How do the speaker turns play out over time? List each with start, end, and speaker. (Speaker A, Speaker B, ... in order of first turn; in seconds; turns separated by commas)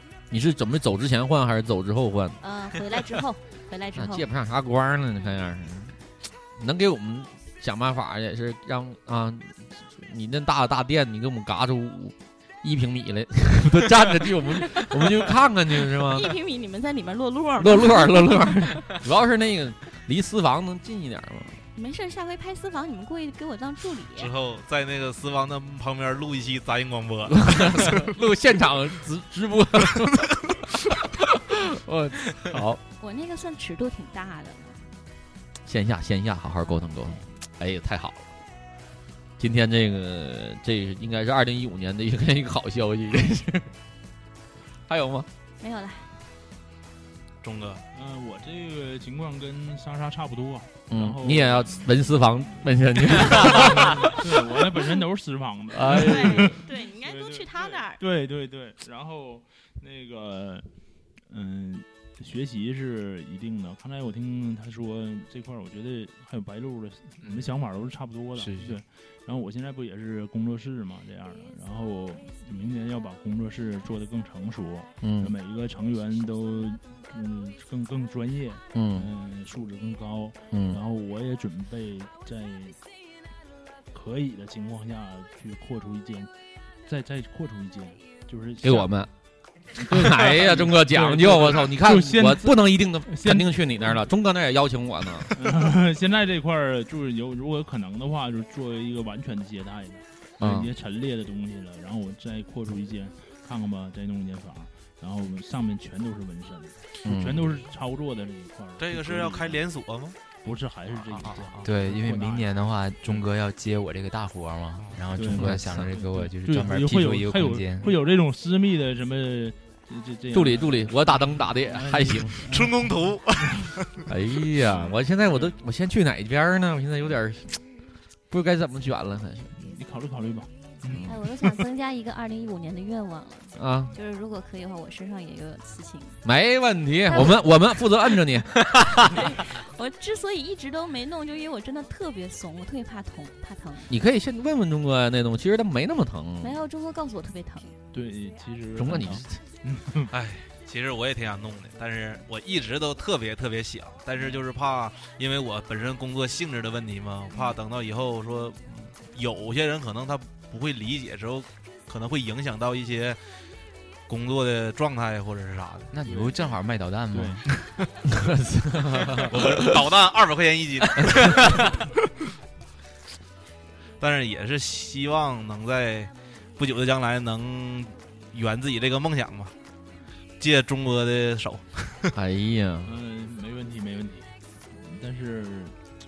Speaker A: 0.3-2.4, Speaker B: 2.4-4.3, Speaker A: 3.9-6.0, Speaker A: 6.5-16.3, Speaker B: 14.8-15.0, Speaker B: 16.0-18.9, Speaker A: 17.6-21.6, Speaker B: 21.7-24.3, Speaker C: 24.1-28.1, Speaker A: 27.3-30.6, Speaker A: 31.5-32.8, Speaker B: 33.0-34.9, Speaker A: 35.6-38.3, Speaker B: 36.6-37.3, Speaker A: 39.4-43.7, Speaker A: 44.9-45.3, Speaker B: 45.6-46.1, Speaker C: 47.4-47.8, Speaker D: 47.9-52.7, Speaker A: 50.9-54.1, Speaker D: 53.2-60.7, Speaker A: 55.7-56.6, Speaker B: 55.9-58.0, Speaker D: 61.3-82.8, Speaker E: 67.2-67.5, Speaker E: 68.3-68.8, Speaker A: 75.0-75.3, Speaker A: 78.7-79.1, Speaker A: 80.5-80.8, Speaker D: 83.9-86.3, Speaker D: 86.8-88.9, Speaker A: 88.6-89.1, Speaker A: 89.7-95.4, Speaker D: 89.8-94.1, Speaker D: 95.3-109.6, Speaker A: 100.4-100.7, Speaker A: 107.0-107.6, Speaker C: 108.8-110.2, Speaker D: 110.4-112.5, Speaker C: 111.1-111.6, Speaker E: 111.6-118.0, Speaker D: 115.1-123.7, Speaker A: 115.3-115.9, Speaker A: 120.3-122.4, Speaker C: 122.5-124.1, Speaker A: 124.1-127.6, Speaker A: 128.3-129.5, Speaker D: 129.5-131.1, Speaker A: 130.8-131.1, Speaker B: 131.0-136.2, Speaker A: 133.5-133.9, Speaker A: 136.2-139.1, Speaker B: 137.1-137.4, Speaker B: 139.0-143.9, Speaker A: 143.9-146.6, Speaker B: 146.4-147.7, Speaker D: 147.9-150.1, Speaker A: 148.7-149.4, Speaker C: 150.1-163.2, Speaker C: 164.1-165.9, Speaker E: 165.9-167.4, Speaker D: 166.0-166.6, Speaker D: 167.1-167.4, Speaker A: 168.1-169.8, Speaker C: 169.2-171.7, Speaker C: 174.0-179.5, Speaker C: 180.4-182.1, Speaker A: 182.1-182.9, Speaker D: 182.8-185.8